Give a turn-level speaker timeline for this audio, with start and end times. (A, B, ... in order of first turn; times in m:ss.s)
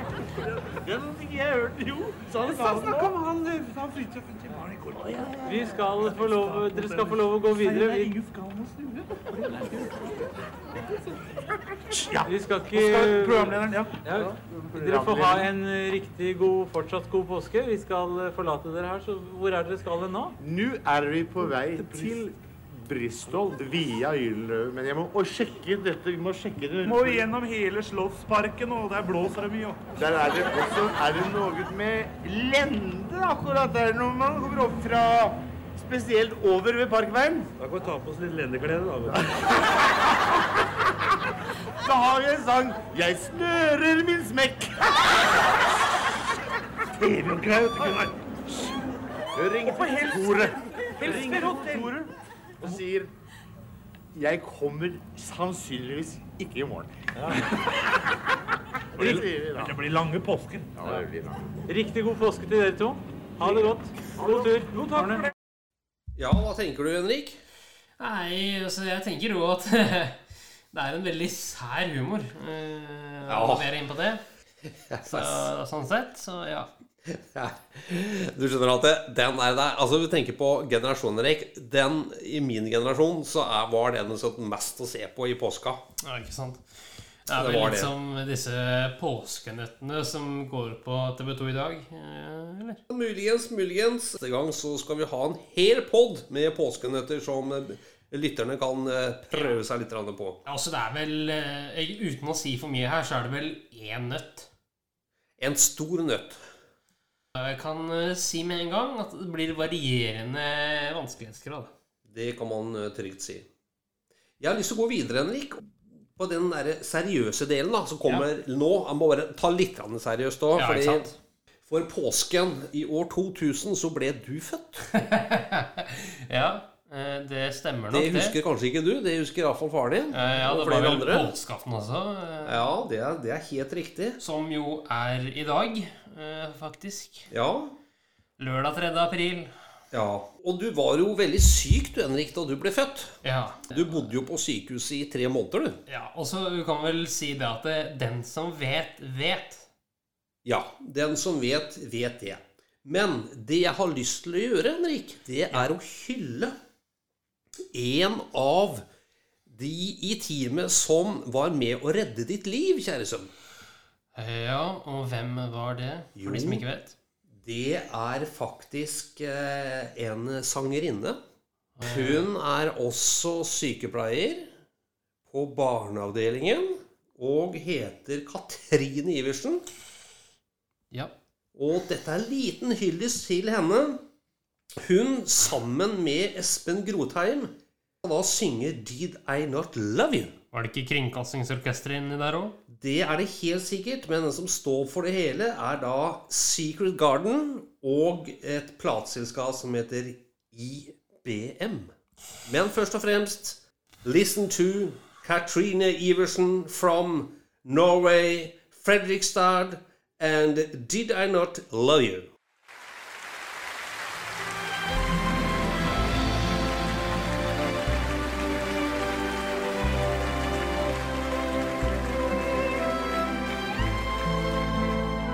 0:00.8-0:01.1 A
0:01.1-0:05.0 B
0:02.3-0:03.2 A
0:04.7-0:08.1 A
0:05.4-0:08.1 C
0:08.3-0:08.7 B
0:11.9-0:12.3 A
0:12.2-0:20.4 C
0:12.7-0:14.0 B
0:14.1-0:15.5 A
0:20.4-0:27.3 A
0:21.8-0:22.2 C
0:26.8-0:30.6 B
0:30.0-0:39.4 A
0:41.8-0:45.2 A
0:47.0-0:48.1 A
0:47.7-0:48.0 B
0:49.4-0:52.0 A
0:49.5-0:52.1 B
0:51.1-0:51.4 C
0:52.6-0:53.1 A
0:54.1-0:57.5 A
0:59.0-1:01.1 A
0:59.0-1:00.2 B
1:01.7-1:05.3 C
1:06.2-1:07.4 D
1:08.0-1:14.2 E
1:13.3-1:13.7 D
1:14.7-1:15.5 D
1:15.1-1:16.7 E
1:17.0-1:25.8 D
1:26.0-1:32.8 E
1:27.3-1:27.9 D
1:32.9-1:40.4 D
1:39.3-1:39.6 E
1:40.4-1:44.5 E
1:45.4-1:46.4 D
1:47.3-1:51.7 E
1:52.0-1:53.5 D
1:54.4-2:01.1 D
2:00.6-2:01.2 E
2:01.7-2:04.9 D
2:04.9-2:08.4 E
2:07.9-2:11.3 D
2:10.1-2:12.7 E
2:12.4-2:14.2 D
2:14.2-2:17.3 E
2:17.3-2:17.7 D
2:18.4-2:19.5 E
2:19.9-2:25.8 D
2:23.2-2:24.1 E
2:25.9-2:29.7 E
2:30.4-2:36.5 D
2:37.7-2:38.8 D
2:39.5-2:43.3 D
2:44.1-2:47.0 E
2:46.2-2:46.6 D
2:47.3-2:51.2 D
2:51.8-2:52.3 E
2:51.8-2:54.5 D
2:55.3-2:59.6 D
3:01.5-3:04.0 D
3:04.8-3:10.4 D
3:10.5-3:12.6 E
3:12.7-3:32.3 D